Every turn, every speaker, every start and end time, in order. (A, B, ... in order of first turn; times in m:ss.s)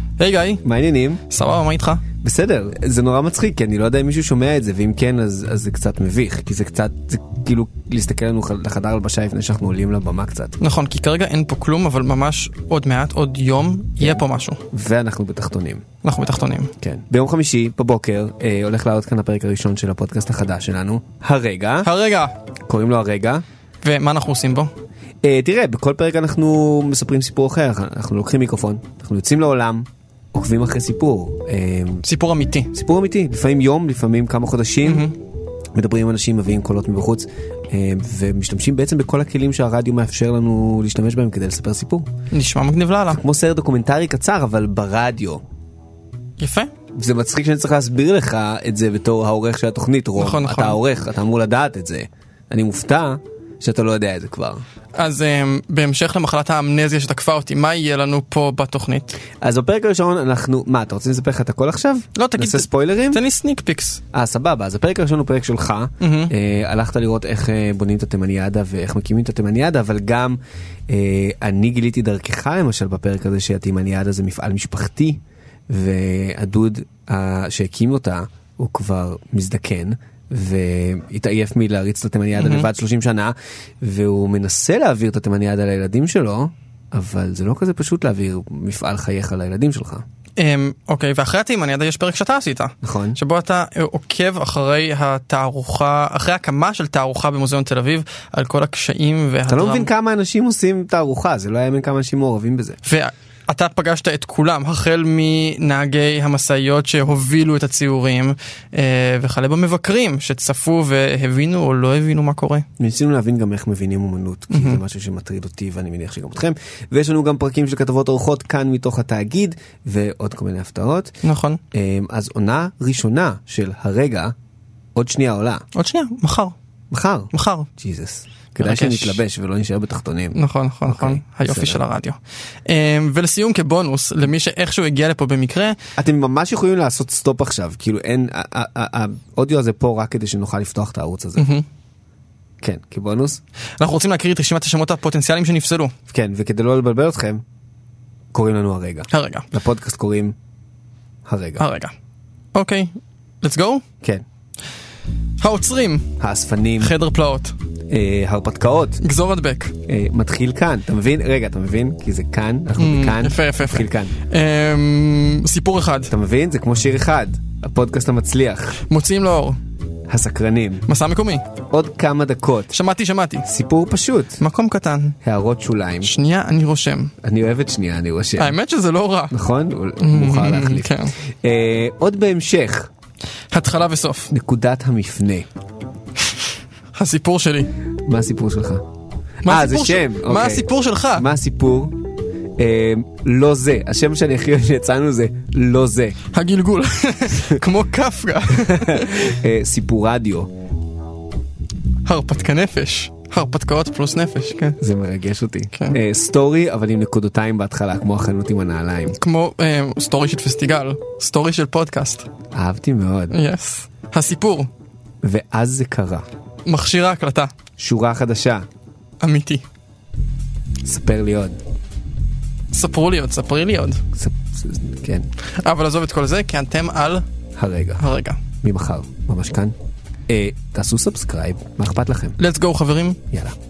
0:00.2-0:00.6 A
0:00.6-0:01.2 B
0:01.3-0:02.0 A
0:02.2-0:10.6 B
0:10.6-0:14.6 A
0:14.7-0:15.8 B
0:16.0-0:16.7 A
0:16.8-0:21.9 B
0:21.8-0:22.3 A
0:22.7-0:23.4 B
0:23.8-0:24.7 A
0:25.2-0:32.0 B
0:32.0-0:32.7 A
0:32.7-0:35.1 B
0:34.8-0:35.2 A
0:35.8-0:42.1 B
0:42.3-0:43.2 A
0:43.1-0:45.4 B
0:46.4-0:46.7 A
0:46.9-0:54.6 B
0:50.2-0:50.8 A
0:55.0-0:59.2 A
0:59.4-1:03.2 B
1:02.2-1:04.0 A
1:04.1-1:30.0 B
1:06.0-1:06.3 A
1:22.4-1:22.7 A
1:30.4-1:39.9 A
1:32.8-1:33.2 B
1:39.5-1:42.8 B
1:42.8-1:52.7 A
1:52.8-2:01.2 B
1:54.5-1:54.8 A
2:01.2-2:01.6 A
2:01.7-2:04.3 B
2:05.0-2:05.6 B
2:05.7-2:06.6 A
2:06.9-2:11.8 B
2:07.3-2:07.7 A
2:08.6-2:09.2 A
2:10.3-2:15.8 A
2:16.0-2:21.5 B
2:21.4-2:21.6 A
2:22.6-2:23.4 B
2:23.8-2:25.9 A
2:26.1-2:27.4 B
2:28.3-2:30.4 B
2:29.1-2:29.5 A
2:31.3-2:31.6 B
2:31.6-2:31.9 A
2:32.6-2:33.8 A
2:35.4-2:36.1 A
2:36.2-2:36.9 B
2:36.8-2:37.6 A
2:37.9-2:39.0 B
2:39.0-2:39.8 A
2:39.9-2:44.2 B
2:42.8-2:46.1 A
2:46.1-2:48.8 B
2:48.9-2:49.6 A
2:50.1-2:50.9 B
2:50.9-2:51.4 A
2:51.7-2:52.8 B
2:52.7-2:53.5 A
2:53.4-2:54.4 B
2:54.4-2:55.2 A
2:55.2-2:56.1 B
2:56.0-2:57.1 A
2:57.2-2:58.6 B
2:58.4-2:59.3 A
2:59.3-3:02.9 B
3:00.0-3:01.1 A
3:03.5-3:04.3 A
3:04.3-3:05.5 B
3:06.9-3:07.7 A
3:08.0-3:08.8 B
3:09.4-3:11.3 A
3:09.5-3:12.0 B
3:12.6-3:16.2 B
3:16.3-3:19.3 A
3:18.6-3:20.5 B
3:22.0-3:24.8 A
3:24.8-3:29.2 B
3:29.1-3:32.3 A
3:32.5-3:33.4 B
3:33.3-3:34.7 A
3:35.2-3:36.3 B
3:36.7-3:37.5 A
3:37.8-3:38.7 B
3:39.2-3:39.6 A
3:40.8-3:41.6 B
3:42.7-3:44.0 A
3:44.1-3:45.3 B
3:45.6-3:47.2 A
3:47.6-3:48.0 B
3:48.0-3:48.4 A
3:48.6-3:49.7 B
3:50.3-3:52.4 B
3:52.4-3:53.2 A